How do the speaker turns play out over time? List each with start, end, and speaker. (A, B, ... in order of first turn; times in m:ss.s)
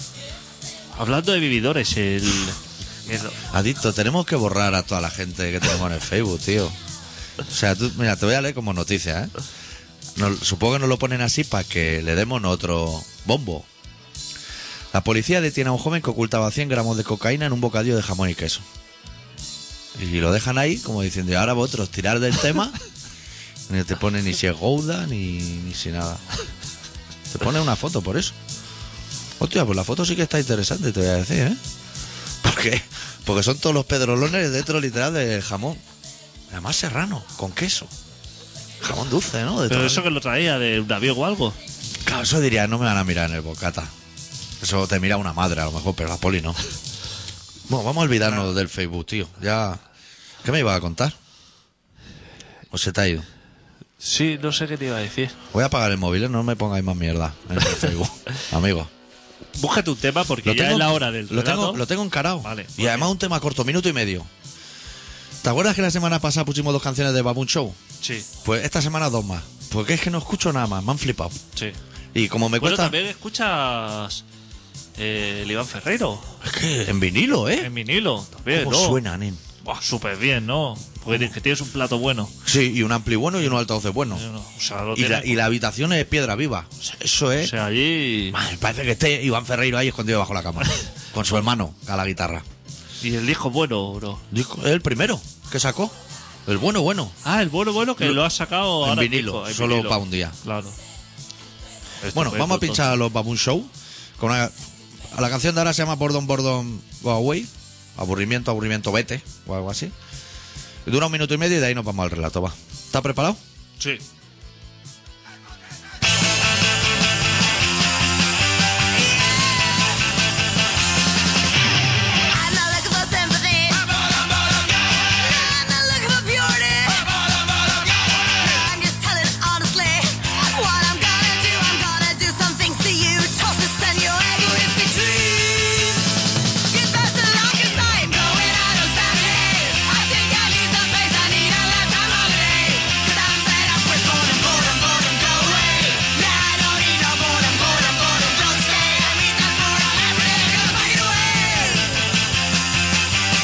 0:01.0-0:03.4 A
0:03.5-0:06.8 B
0:07.5-0:09.3 B
0:10.2-0:13.7 B
0:14.9-0:18.6 B
0:20.0-0:22.8 B
0:23.7-0:26.2 B
0:27.3-0:28.4 B
0:29.4-0:31.6 B
0:32.4-0:35.8 B
0:36.5-0:37.9 B
0:38.8-0:40.1 B
0:39.7-0:41.6 A
0:42.0-0:43.9 B
0:44.6-0:46.6 B
0:47.7-0:49.8 B
0:50.4-0:51.2 B
0:52.7-0:53.3 B
0:54.0-0:55.4 A
0:55.5-0:58.9 B
0:59.6-1:01.8 A
1:00.4-1:04.3 B
1:02.4-1:03.1 A
1:05.4-1:07.8 B
1:08.0-1:08.3 A
1:08.4-1:11.4 B
1:12.1-1:13.0 B
1:12.6-1:14.2 A
1:15.0-1:16.3 A
1:16.4-1:17.7 B
1:17.6-1:19.0 A
1:18.5-1:19.4 B
1:19.6-1:22.3 A
1:22.4-1:24.2 B
1:24.1-1:25.4 A
1:25.0-1:27.5 B
1:27.4-1:28.4 A
1:28.3-1:32.4 B
1:33.0-1:34.2 A
1:34.3-1:36.0 B
1:36.5-1:37.2 B
1:37.2-1:40.8 A
1:38.8-1:40.4 B
1:42.0-1:42.9 A
1:42.1-1:44.6 B
1:45.1-1:49.9 B
1:50.8-1:53.4 B
2:02.3-2:03.9 C
2:05.0-2:07.1 C
2:08.2-2:16.1 C
2:16.7-2:32.1 C